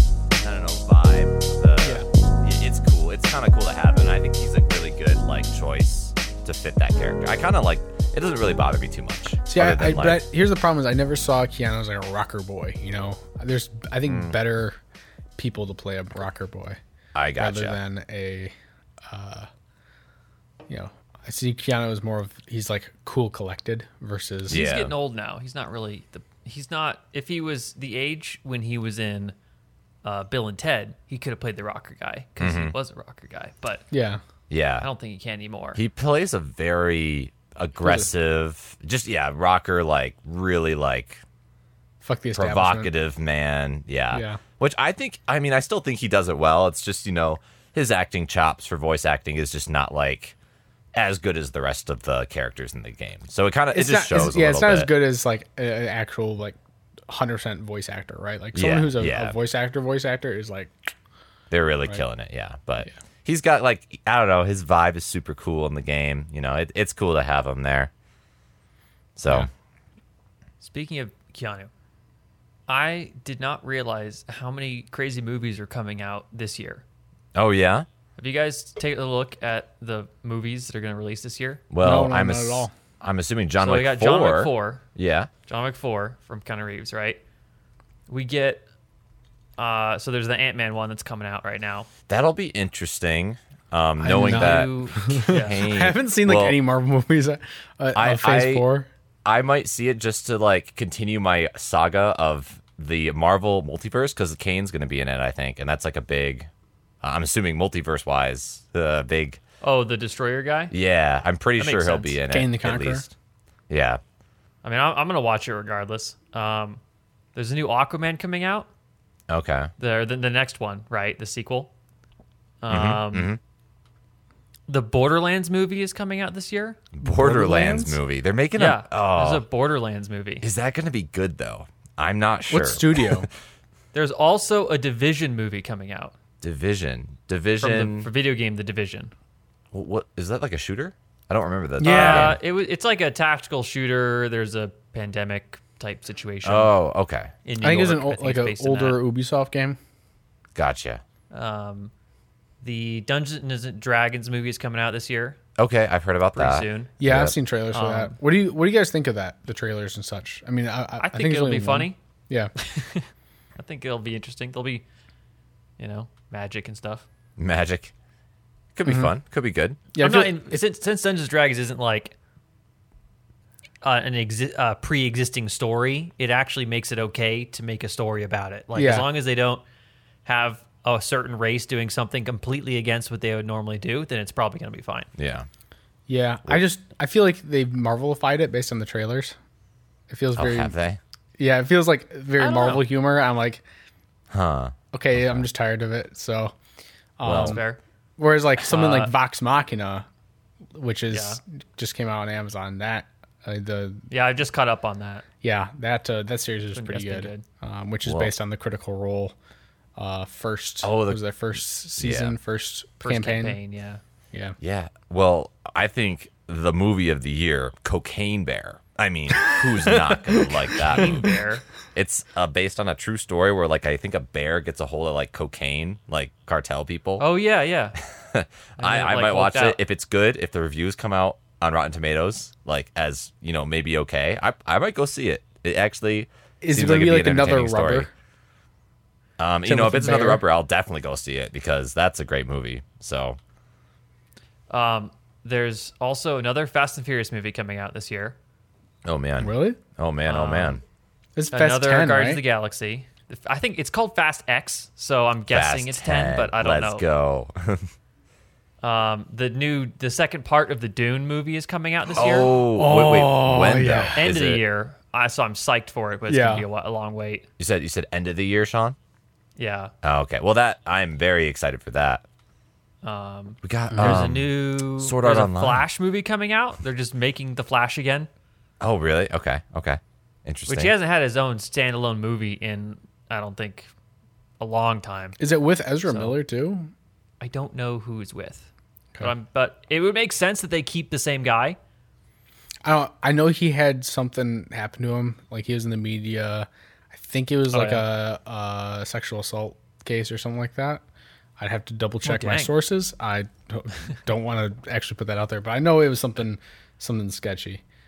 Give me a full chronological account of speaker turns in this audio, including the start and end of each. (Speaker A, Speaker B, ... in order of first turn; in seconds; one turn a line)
Speaker A: 0.3-10.2
Speaker B: 1.8-2.1
Speaker B: 9.5-14.8
Speaker A: 14.1-14.3
Speaker B: 15.4-16.8
Speaker A: 17.1-17.8
Speaker B: 17.4-18.5
Speaker B: 19.1-19.5
Speaker B: 20.7-24.6
Speaker C: 24.5-29.4
Speaker A: 24.5-24.9
Speaker C: 30.0-33.8
Speaker A: 32.4-32.8
Speaker B: 33.9-34.2
Speaker A: 34.5-34.9
Speaker C: 34.8-35.8
Speaker A: 35.8-41.2
Speaker B: 37.8-38.1
Speaker B: 42.0-42.9
Speaker A: 42.4-50.4
Speaker B: 44.1-44.4
Speaker A: 50.9-54.9
Speaker B: 53.7-56.6
Speaker B: 57.1-60.7
Speaker A: 58.5-59.4
Speaker A: 61.5-67.9
Speaker A: 69.2-69.5
Speaker C: 70.6-71.7
Speaker C: 72.7-76.8
Speaker A: 77.3-77.9
Speaker C: 78.2-81.6
Speaker A: 81.7-85.3
Speaker B: 81.8-82.7
Speaker C: 83.6-84.8
Speaker C: 85.5-87.2
Speaker C: 88.1-88.6
Speaker C: 89.6-91.9
Speaker A: 92.1-96.6
Speaker B: 94.0-98.9
Speaker C: 94.2-95.6
Speaker A: 98.0-98.7
Speaker A: 99.2-106.5
Speaker A: 107.0-109.4
Speaker C: 109.6-110.7
Speaker A: 110.7-113.1
Speaker C: 111.6-112.2
Speaker B: 112.3-113.1
Speaker A: 113.7-114.0
Speaker C: 114.6-116.8
Speaker C: 117.3-118.7
Speaker A: 119.3-119.7
Speaker C: 119.8-121.7
Speaker C: 122.6-123.3
Speaker A: 122.7-123.4
Speaker C: 124.7-126.8
Speaker A: 126.9-129.4
Speaker B: 127.0-128.0
Speaker C: 128.6-130.4
Speaker A: 130.4-133.3
Speaker B: 132.5-133.3
Speaker C: 133.9-136.1
Speaker A: 136.4-138.1
Speaker C: 137.6-139.1
Speaker A: 139.7-142.4
Speaker B: 141.8-142.4
Speaker C: 141.8-146.7
Speaker A: 146.4-147.3
Speaker C: 147.4-149.0
Speaker B: 147.6-149.8
Speaker A: 150.6-151.0
Speaker C: 151.3-151.9
Speaker C: 152.6-155.4
Speaker A: 155.6-157.3
Speaker C: 156.3-156.9
Speaker B: 157.0-162.5
Speaker C: 157.7-158.2
Speaker C: 161.0-162.0
Speaker C: 162.6-163.1
Speaker C: 163.6-164.8
Speaker C: 165.8-167.1
Speaker A: 167.4-167.9
Speaker A: 168.7-169.8
Speaker B: 168.9-169.1
Speaker B: 169.9-170.6
Speaker C: 170.0-172.2
Speaker C: 173.8-179.6
Speaker B: 178.8-179.1
Speaker C: 180.2-185.1
Speaker A: 185.2-185.5
Speaker B: 186.1-189.4
Speaker B: 190.1-190.7
Speaker A: 190.4-191.0
Speaker B: 191.4-193.6
Speaker C: 192.4-192.8
Speaker A: 194.3-195.4
Speaker B: 194.9-196.6
Speaker B: 197.2-197.6
Speaker A: 197.2-197.6
Speaker C: 197.3-197.8
Speaker B: 198.2-200.1
Speaker C: 198.6-199.1
Speaker B: 200.7-204.1
Speaker C: 201.1-201.4
Speaker C: 204.1-205.2
Speaker B: 205.4-209.4
Speaker C: 206.8-207.4
Speaker A: 208.1-208.3
Speaker B: 210.0-213.6
Speaker A: 210.8-211.2
Speaker A: 212.0-212.3
Speaker C: 213.0-214.0
Speaker A: 214.6-221.4
Speaker C: 219.4-221.6
Speaker A: 221.9-227.3
Speaker C: 227.2-228.0
Speaker A: 228.2-238.1
Speaker C: 228.8-229.8
Speaker B: 236.6-238.1
Speaker A: 239.4-243.4
Speaker B: 239.7-240.4
Speaker C: 244.7-248.4
Speaker A: 249.1-250.8
Speaker B: 249.4-249.8
Speaker C: 250.3-250.8
Speaker B: 251.4-252.4
Speaker C: 251.5-257.0
Speaker A: 255.5-257.9
Speaker C: 258.8-262.5
Speaker A: 262.2-264.6
Speaker B: 262.3-264.2
Speaker C: 264.2-267.5
Speaker B: 266.3-266.6
Speaker A: 267.6-269.0
Speaker C: 269.6-269.9
Speaker A: 270.0-272.2
Speaker C: 273.0-278.3
Speaker A: 273.6-275.8
Speaker B: 273.9-274.2
Speaker A: 278.8-280.9
Speaker C: 280.7-283.9
Speaker C: 284.6-285.4
Speaker B: 285.4-286.9
Speaker C: 286.1-286.4
Speaker C: 287.4-288.7
Speaker C: 289.2-291.8
Speaker B: 292.8-301.0
Speaker C: 297.7-298.1
Speaker B: 301.6-307.8
Speaker C: 302.2-302.8